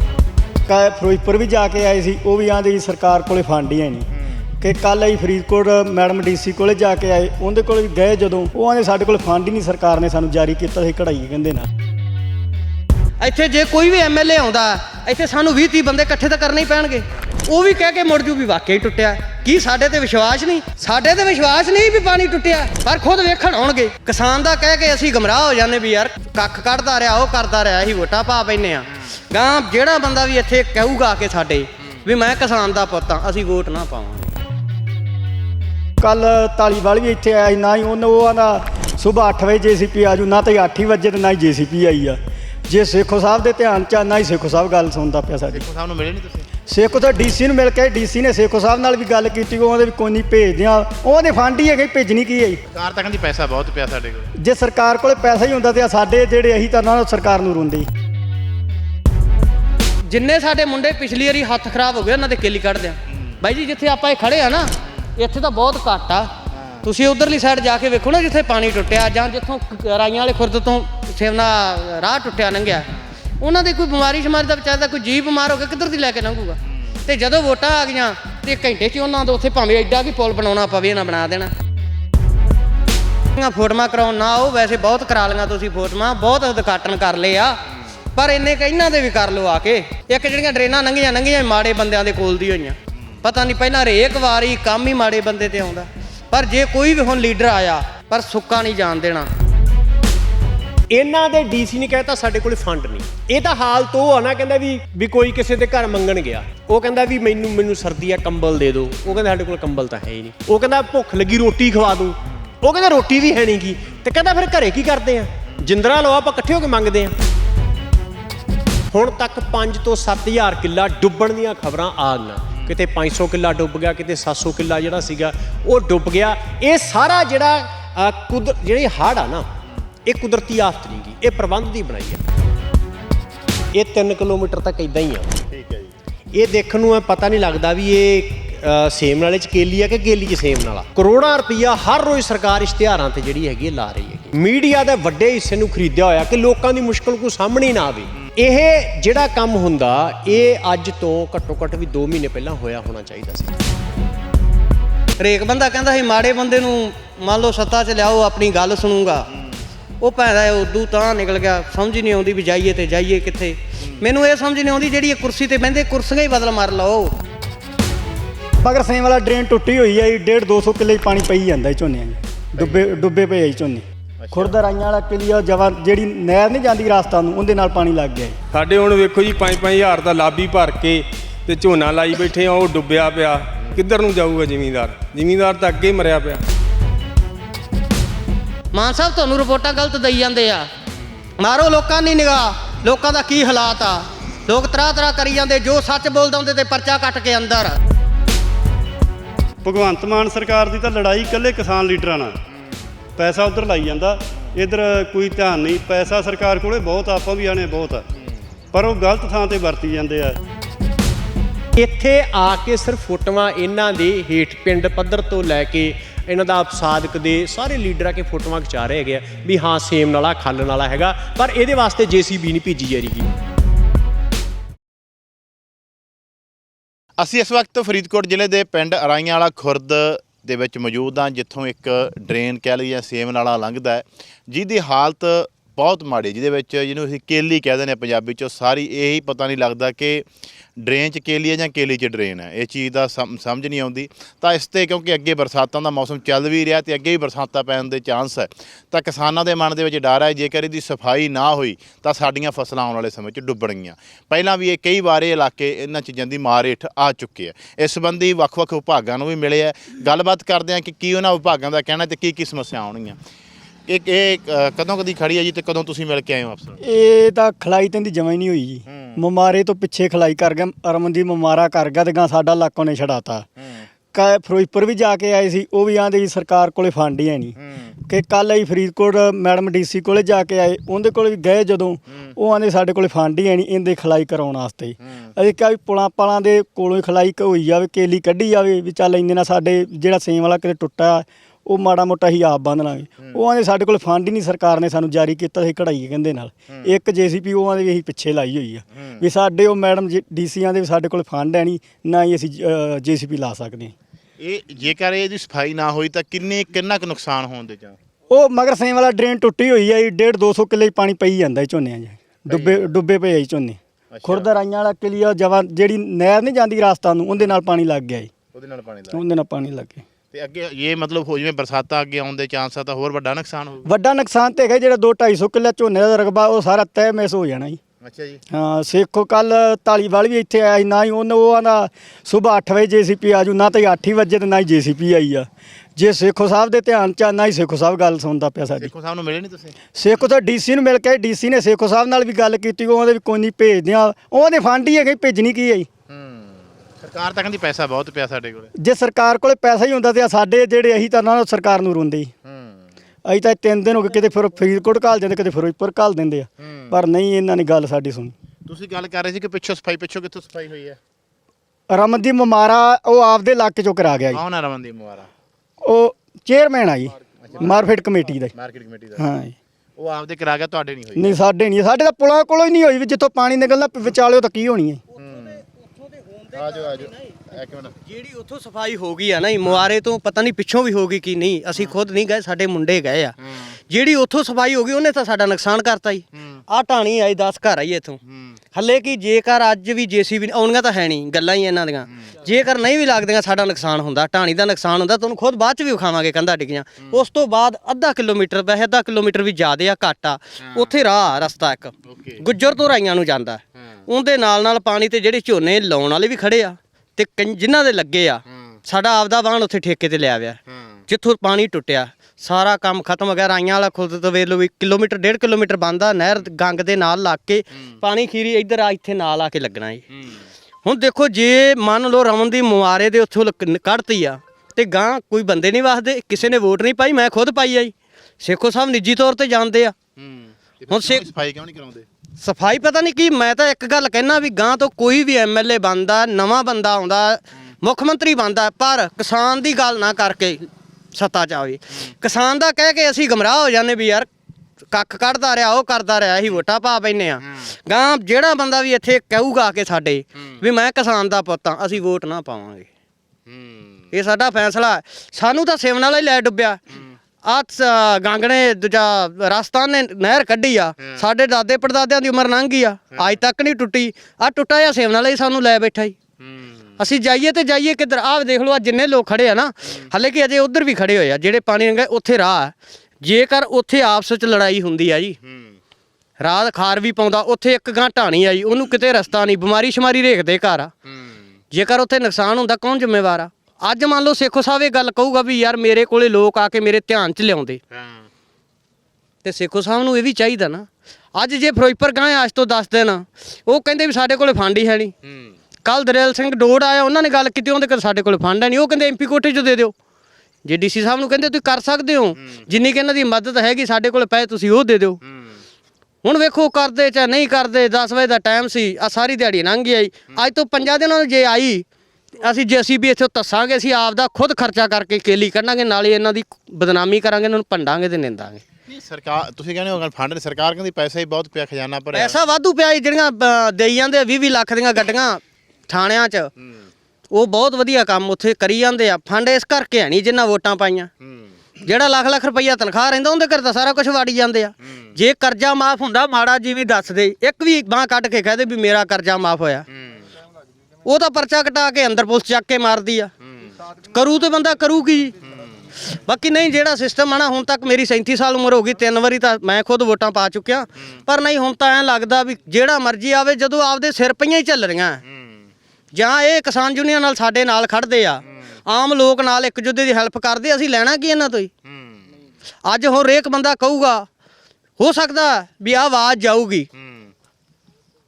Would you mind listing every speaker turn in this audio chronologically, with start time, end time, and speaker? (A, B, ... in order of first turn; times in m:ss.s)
0:00.7-0:04.1 A
0:04.6-0:11.7 A
0:13.2-0:34.3 B
0:36.0-0:45.6 A
0:45.5-0:46.5 C
0:46.7-0:52.6 A
0:52.7-0:54.3 C
0:54.4-0:57.9 A
1:00.1-1:06.3 B
1:06.6-1:06.8 C
1:06.8-1:12.9 B
1:13.4-1:21.5 B
1:23.4-1:27.6 B
1:28.2-1:39.3 B
1:40.9-1:57.1 D
1:58.9-2:09.5 D
2:10.1-2:12.2 D
2:13.7-2:15.4 D
2:15.5-2:15.9 C
2:16.3-2:33.6 D
2:35.2-2:39.3 B
2:40.0-2:47.2 B
2:48.6-2:58.4 A
2:54.2-2:54.6 C
2:58.5-3:06.4 E
3:08.7-3:10.7 B
3:11.4-3:17.8 B
3:19.6-3:22.4 F
3:23.2-3:28.1 F
3:28.7-3:30.4 F
3:31.8-3:43.3 D
3:47.2-4:00.3 C
4:00.8-4:23.2 C
4:23.9-4:26.8 C
4:26.8-4:33.5 A
4:28.9-4:29.2 C
4:33.6-4:33.9 C
4:34.1-5:03.9 A
4:37.6-4:37.9 C
4:45.0-4:45.3 C
4:59.0-4:59.2 C
5:04.4-5:08.0 C
5:08.3-5:18.3 A
5:12.5-5:12.8 C
5:14.1-5:14.5 C
5:18.5-5:19.2 C
5:19.1-5:20.0 A
5:20.3-5:23.9 C
5:23.8-5:27.8 A
5:28.0-5:28.4 C
5:28.5-5:38.9 A
5:38.8-5:39.8 C
5:40.0-5:45.9 A
5:46.1-5:48.7 C
5:48.8-5:52.3 A
5:52.4-5:52.8 C
5:53.3-5:58.3 A
5:56.6-5:57.0 C
5:58.7-6:01.0 C
6:01.9-6:04.4 A
6:04.3-6:05.3 C
6:05.8-6:08.5 A
6:07.4-6:07.8 C
6:08.6-6:09.2 C
6:09.2-6:09.6 A
6:10.0-6:11.4 C
6:11.2-6:15.0 A
6:15.2-6:15.6 C
6:16.5-6:18.0 C
6:18.1-6:23.4 B
6:23.9-6:28.2 B
6:28.7-7:00.0 B
6:42.1-6:42.4 C
6:50.7-6:51.0 C
7:00.8-7:09.9 B
7:10.2-7:12.0 C
7:10.9-7:11.2 B
7:12.4-7:24.3 B
7:24.9-7:32.9 B
7:33.5-7:34.0 C
7:34.1-7:36.8 B
7:37.4-7:46.2 B
7:46.4-7:46.7 C
7:47.0-7:55.4 B
7:56.4-8:00.9 B
8:01.7-8:07.8 B
8:07.9-8:08.3 C
8:09.4-8:15.1 B
8:15.3-8:15.5 C
8:15.8-8:19.9 B
8:20.6-8:25.2 B
8:26.2-8:31.8 B
8:32.4-8:38.6 B
8:38.9-8:42.4 C
8:42.1-8:46.5 B
8:47.3-8:51.1 B
8:51.2-8:51.5 C
8:51.8-8:59.9 B
8:59.9-9:00.2 C
9:01.0-9:03.3 B
9:04.1-9:05.4 B
9:06.1-9:15.2 B
9:16.1-9:21.7 B
9:21.9-9:22.2 C
9:22.9-9:24.3 B
9:25.0-9:26.9 B
9:27.0-9:27.3 C